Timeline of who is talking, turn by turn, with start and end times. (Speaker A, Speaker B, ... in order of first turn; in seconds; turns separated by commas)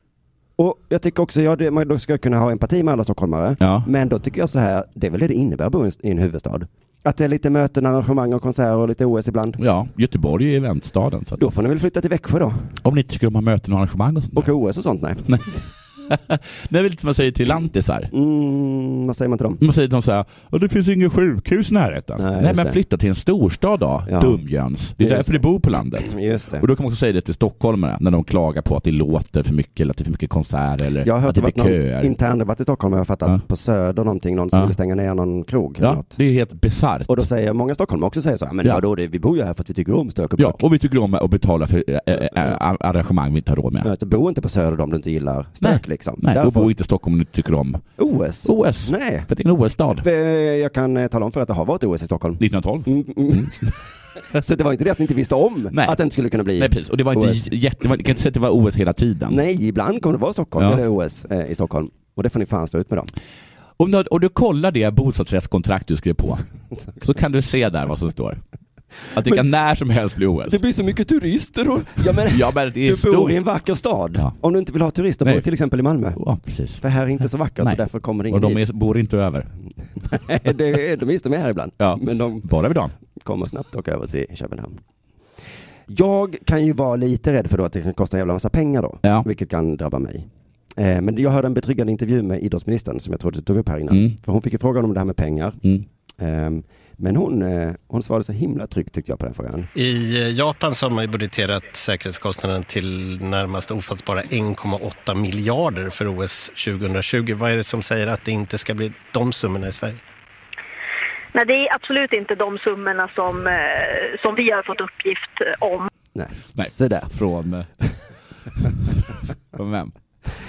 Speaker A: 0.6-9.6, Speaker B: 3.6-3.9, Speaker B: 9.6-11.4, Speaker A: 11.4-12.8, Speaker B: 12.8-14.5, Speaker A: 14.3-15.4, Speaker B: 16.1-18.1, Speaker A: 18.1-19.6, Speaker B: 19.6-32.1, Speaker A: 22.2-22.8, Speaker A: 24.1-24.4, Speaker A: 25.0-26.7, Speaker A: 31.0-36.2, Speaker B: 35.8-37.3, Speaker A: 37.1-40.6, Speaker B: 40.4-43.9, Speaker A: 43.8-46.7, Speaker B: 45.6-47.9, Speaker A: 48.0-49.3, Speaker B: 48.5-50.0, Speaker A: 50.0-53.7, Speaker B: 52.4-53.7, Speaker A: 54.3-57.5, Speaker B: 55.7-56.0, Speaker B: 56.6-59.4, Speaker A: 59.3-63.1, Speaker B: 63.8-66.4, Speaker B: 67.0-68.4, Speaker B: 69.1-70.6, Speaker A: 70.5-76.2, Speaker B: 72.3-73.4, Speaker B: 76.2-79.5, Speaker A: 76.8-78.6, Speaker A: 80.1-82.5, Speaker B: 81.8-82.9, Speaker A: 83.1-84.8, Speaker A: 85.9-95.6, Speaker B: 93.9-94.2, Speaker A: 96.2-99.7, Speaker C: 99.8-110.0, Speaker D: 111.3-115.9, Speaker A: 116.2-117.1, Speaker B: 116.5-117.7, Speaker B: 119.5-119.9